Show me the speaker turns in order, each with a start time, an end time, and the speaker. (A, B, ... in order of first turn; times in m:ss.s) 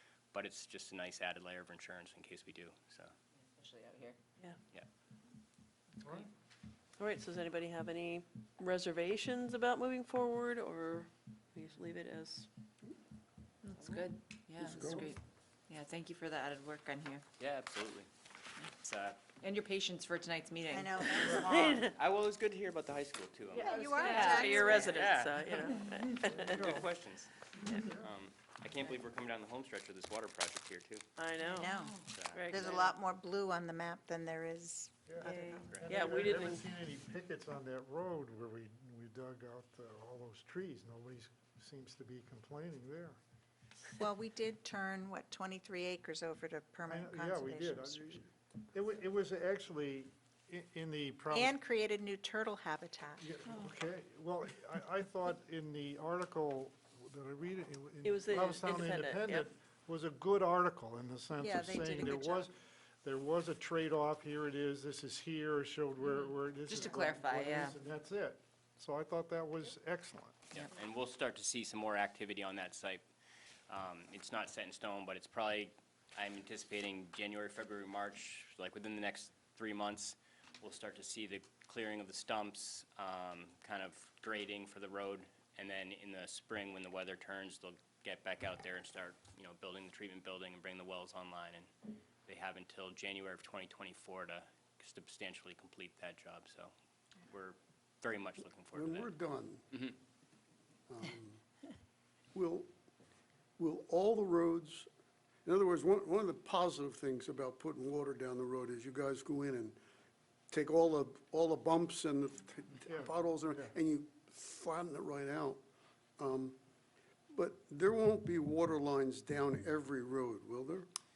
0:00.3-0:03.1 A
0:03.6-0:04.2 B
0:07.0-0:12.5 C
0:13.6-0:17.2 B
0:14.6-0:15.1 D
0:17.4-0:18.1 A
0:18.8-0:19.3 A
0:19.4-0:21.9 B
0:20.7-0:21.6 E
0:21.4-0:21.9 C
0:21.7-0:31.0 A
0:23.6-0:25.1 B
0:23.6-0:24.8 E
0:24.1-0:26.8 C
0:26.3-0:26.9 F
0:31.2-0:31.7 C
0:31.5-0:31.9 B
0:31.5-0:32.0 E
0:32.0-0:32.7 A
0:32.3-0:32.9 C
0:32.5-0:35.8 E
0:35.1-0:43.2 F
0:35.2-0:36.6 C
0:44.0-0:48.2 E
0:46.9-0:51.6 F
0:51.3-0:53.3 E
0:53.2-1:10.4 F
0:58.0-0:59.5 C
1:01.4-1:02.4 E
1:06.1-1:07.8 B
1:10.5-1:13.0 A
1:13.7-1:31.7 A
1:32.3-1:36.7 A
1:37.3-1:39.1 A
1:38.7-1:39.6 D
1:39.7-1:40.0 A
1:40.9-1:41.4 D
1:42.3-1:42.7 D
1:43.6-1:44.9 D
1:45.4-1:49.8 D
1:50.5-1:55.6 D
1:52.9-1:53.7 F
1:56.2-1:56.6 D
1:57.3-2:00.9 D